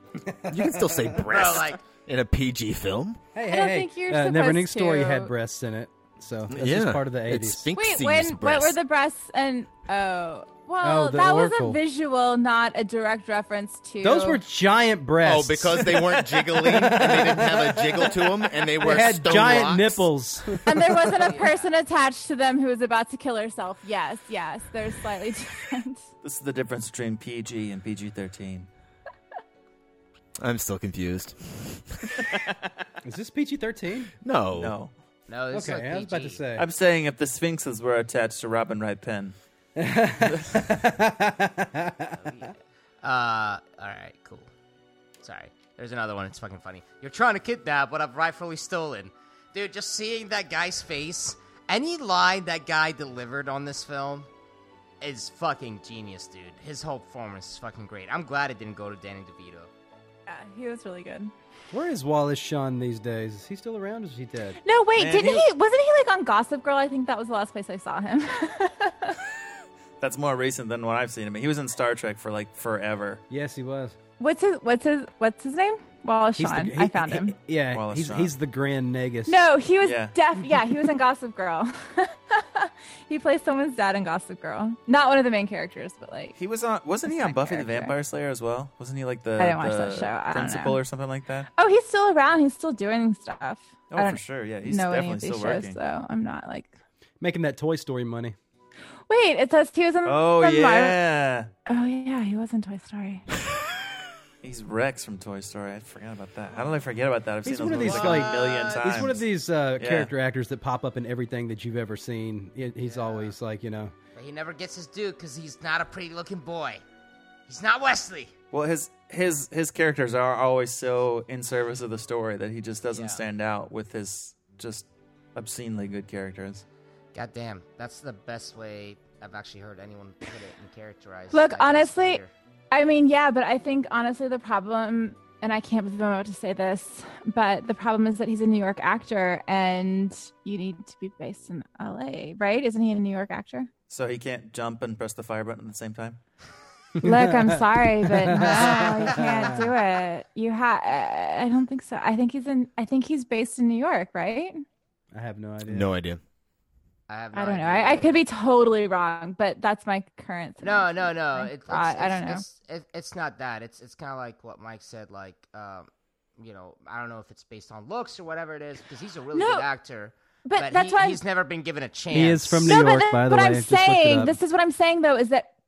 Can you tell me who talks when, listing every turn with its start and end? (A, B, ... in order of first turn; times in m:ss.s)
0:00.3-0:01.2 A
0:00.5-0:03.2 B
0:01.3-0:01.8 C
0:03.3-0:07.7 A
0:03.5-0:05.3 D
0:06.5-0:08.8 B
0:07.7-0:14.4 D
0:10.8-0:11.8 A
0:14.0-0:21.1 A
0:15.2-0:20.1 B
0:20.6-0:26.0 D
0:21.2-0:21.7 C
0:26.2-0:28.7 E
0:30.4-0:32.2 B
0:33.0-0:34.1 A
0:34.2-0:34.8 B
0:34.5-0:34.9 E
0:35.3-0:36.4 C
0:35.5-0:36.6 A
0:36.6-0:39.4 E
0:39.8-0:42.2 A
0:42.2-0:44.5 C
0:45.2-0:54.3 C
0:55.0-0:59.7 C
1:00.3-1:01.3 D
1:01.7-1:04.6 A
1:04.6-1:09.2 D
1:05.0-1:05.4 E
1:10.0-1:13.2 E
1:13.3-1:14.0 A
1:14.2-1:17.3 D
1:16.4-1:19.4 A
1:17.7-1:18.3 E
1:19.3-1:26.4 D
1:19.8-1:20.1 E
1:26.4-1:31.5 E
1:27.0-1:27.9 D
1:29.4-1:30.8 D
1:31.6-1:36.7 D
1:33.9-1:35.8 E
1:37.2-1:38.3 A
1:39.1-1:41.0 D
1:40.0-1:41.5 E
1:41.7-1:43.2 D
1:44.4-1:49.2 E
1:47.4-1:53.9 A
1:47.7-1:49.1 C
1:49.8-1:50.1 E
1:52.8-1:53.3 C
1:54.2-1:56.8 C
1:57.5-1:58.3 C
1:58.5-2:06.6 E
2:02.9-2:03.2 C
2:07.1-2:12.3 C
2:11.3-2:23.7 D
2:23.9-2:26.2 E
2:27.0-2:29.7 A
2:27.0-2:34.6 D
2:35.1-2:35.9 A
2:35.6-2:36.2 B
2:37.1-2:38.2 C
2:37.3-2:42.4 D
2:40.6-2:52.8 C
2:49.3-2:49.7 D
2:50.4-2:51.2 D
2:52.1-2:54.4 A
2:52.6-2:55.5 D